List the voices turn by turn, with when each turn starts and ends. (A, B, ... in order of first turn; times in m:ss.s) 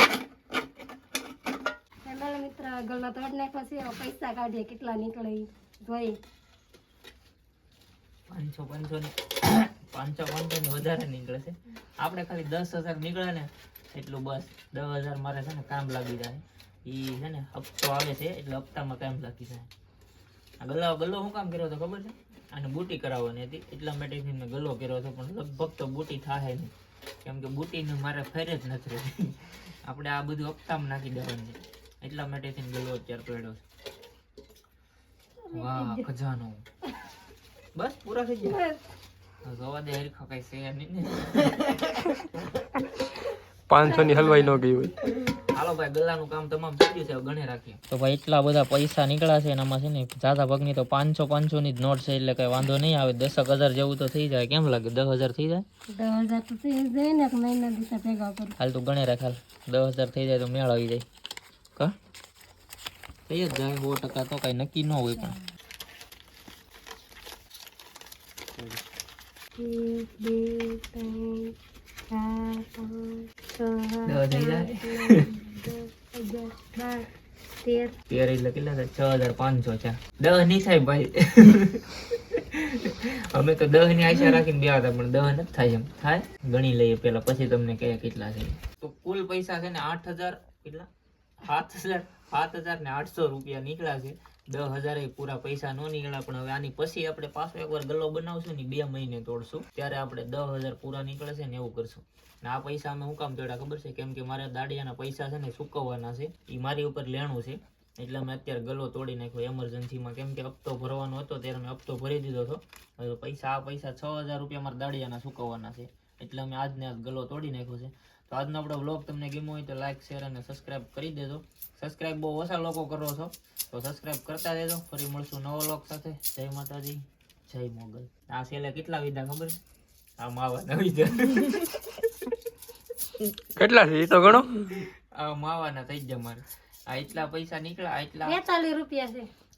0:02.0-0:06.2 A
0:08.3-0:19.7 B
0:20.6-0:26.7 B
0:27.2-0:33.6 B
0:35.5-0:36.1 A
0:35.5-0:36.6 B
0:37.8-0:38.6 B
0:38.5-0:38.8 A
0:39.4-0:42.6 B
0:43.7-0:45.0 C
0:43.8-0:44.6 B
0:44.0-0:44.5 A
0:45.2-0:55.6 B
0:56.0-0:58.6 A
0:58.6-1:01.0 B
1:03.3-1:05.4 B
1:09.6-1:11.6 A
1:12.1-1:17.1 A
1:14.1-1:15.3 B
1:17.6-1:17.9 A
1:18.1-1:30.9 B
1:31.4-2:09.6 B
2:10.2-2:12.3 B
2:13.6-2:14.7 C
2:15.1-2:18.4 B
2:18.3-2:19.3 A